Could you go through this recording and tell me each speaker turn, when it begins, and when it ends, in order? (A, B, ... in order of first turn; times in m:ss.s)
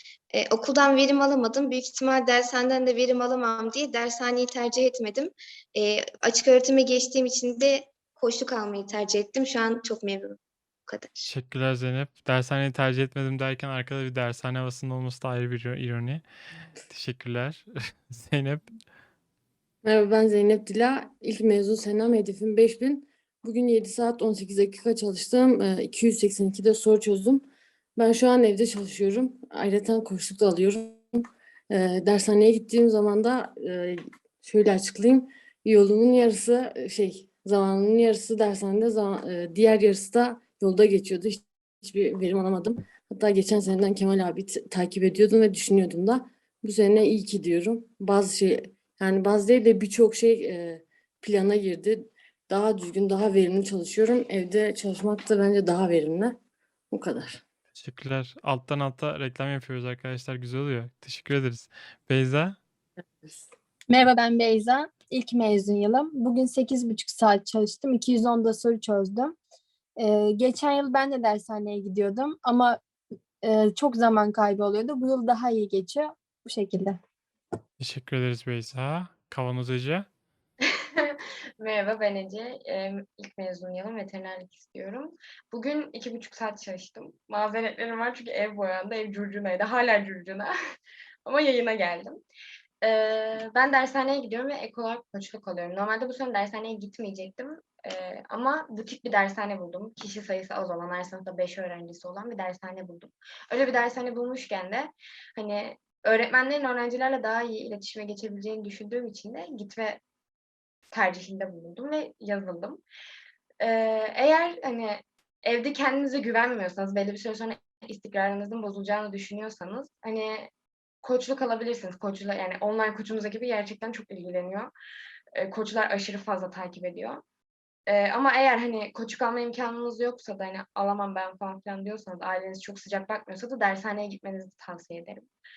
0:00.3-0:11.3 A
0:11.3-0:16.2 B
0:16.8-0:18.7 B
0:19.8-0:31.1 C
0:31.7-0:56.4 C
0:56.9-0:57.4 C
0:57.7-1:02.6 B
1:03.9-1:09.3 D
1:10.0-1:12.8 D
1:13.4-1:17.0 D
1:17.8-1:20.0 B
1:21.0-1:30.5 E
1:31.2-1:32.2 E
1:32.8-1:50.0 E
1:50.9-1:52.8 E
1:53.6-2:00.5 E
2:01.0-2:04.7 E
2:05.3-2:07.2 E
2:07.9-2:15.3 E